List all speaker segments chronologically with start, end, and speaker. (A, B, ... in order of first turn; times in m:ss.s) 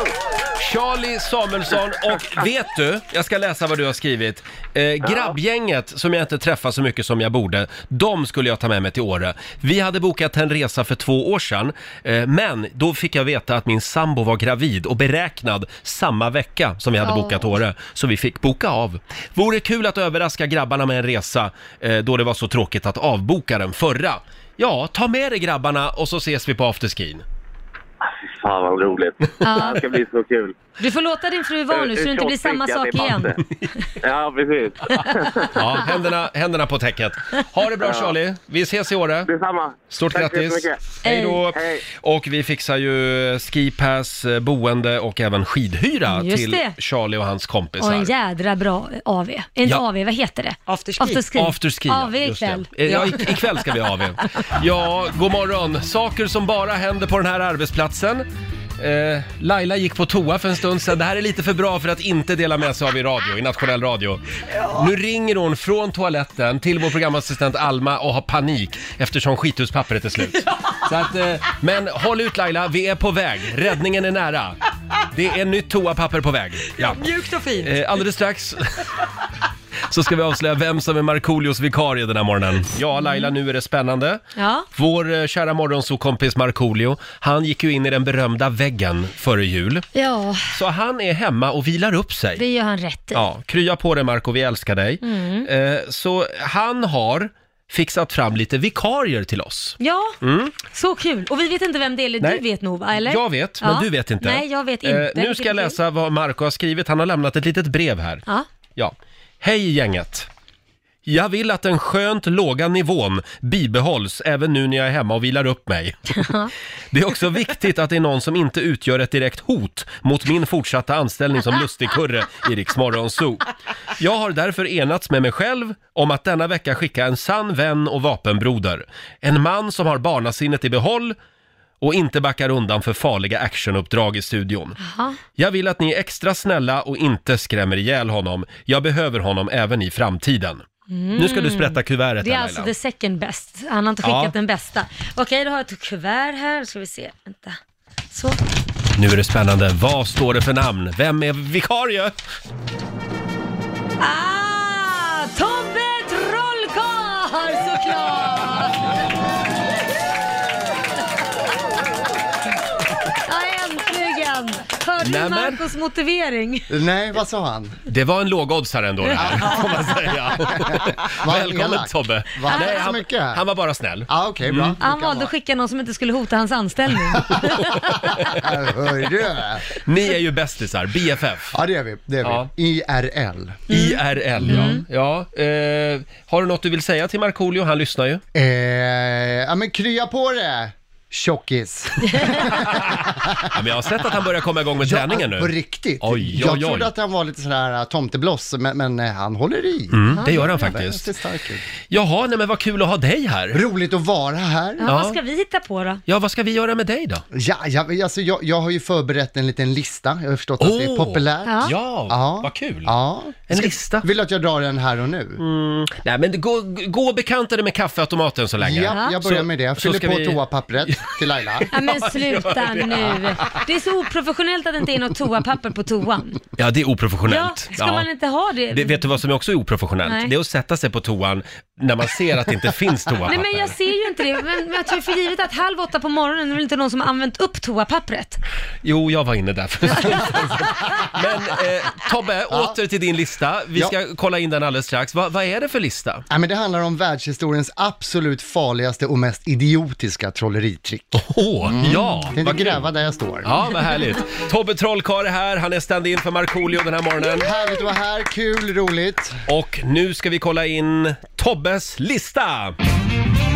0:00.6-0:27.2 A
0:05.1-0:05.3 B
0:17.0-0:17.4 C
0:28.0-0:30.5 B
0:29.4-0:29.8 C
0:30.8-0:33.3 C
0:31.7-0:33.4 B
0:34.0-0:35.6 B
0:35.5-0:39.3 A
0:37.8-0:38.1 B
0:39.3-0:40.8 B
0:39.9-0:48.1 A
0:41.5-0:41.8 B
0:46.1-0:46.7 C
0:47.8-0:53.1 C
0:50.7-0:51.2 D
0:51.3-0:58.2 A
0:52.8-0:53.2 D
0:58.8-1:04.2 A
1:04.7-1:14.6 A
1:15.1-1:17.0 A
1:16.8-1:17.8 D
1:17.6-1:18.8 A
1:19.9-1:24.2 A
1:23.0-1:23.3 C
1:24.4-1:24.7 C
1:24.7-1:29.9 A
1:29.9-1:30.5 C
1:30.5-1:32.4 A
1:32.4-1:33.2 C
1:33.1-1:40.6 A
1:35.0-1:35.5 C
1:39.8-1:45.8 C
1:43.0-1:48.2 A
1:48.8-1:50.3 A
1:51.0-1:56.3 A
1:56.2-1:56.5 C
1:56.9-2:11.2 A
2:11.8-2:14.8 A
2:14.8-2:15.2 C
2:15.4-2:20.6 A
2:20.9-2:27.6 C
2:21.1-2:22.7 A
2:24.0-2:24.3 A
2:28.1-2:28.4 C
2:29.0-2:32.1 A
2:34.0-2:38.9 C
2:43.2-2:46.7 C
2:45.0-2:45.6 A
2:46.7-2:47.8 E
2:47.9-2:54.8 A
2:49.2-2:53.4 E
2:52.5-2:53.0 C
2:54.1-2:55.3 E
2:54.8-2:57.8 C
2:57.0-2:59.6 E
2:57.7-2:58.4 A
2:59.8-3:01.5 A
3:01.5-3:03.7 E
3:02.2-3:02.5 A
3:03.7-3:04.8 C
3:03.7-3:08.2 A
3:04.4-3:04.8 E
3:08.3-3:14.2 E
3:12.5-3:16.9 A
3:14.8-3:21.6 E
3:19.9-3:21.0 A
3:21.9-3:23.6 A
3:23.5-3:24.9 E
3:24.8-3:26.0 C
3:24.8-3:25.2 A
3:26.1-3:27.2 A
3:27.3-3:35.4 E
3:30.6-3:32.9 A
3:31.4-3:31.7 C
3:33.5-3:34.1 A
3:35.4-3:43.6 A
3:38.6-3:41.7 E
3:38.9-3:39.2 C
3:41.7-3:46.4 C
3:46.6-3:48.0 A
3:47.3-3:49.0 C
3:48.7-3:53.7 A
3:50.0-3:50.3 C
3:53.2-3:58.4 C
3:58.8-4:06.2 A
4:00.2-4:01.2 E
4:02.5-4:02.8 E
4:06.3-4:13.5 E
4:11.2-4:12.8 A
4:13.4-4:17.5 A
4:17.3-4:19.4 E
4:19.5-4:22.7 A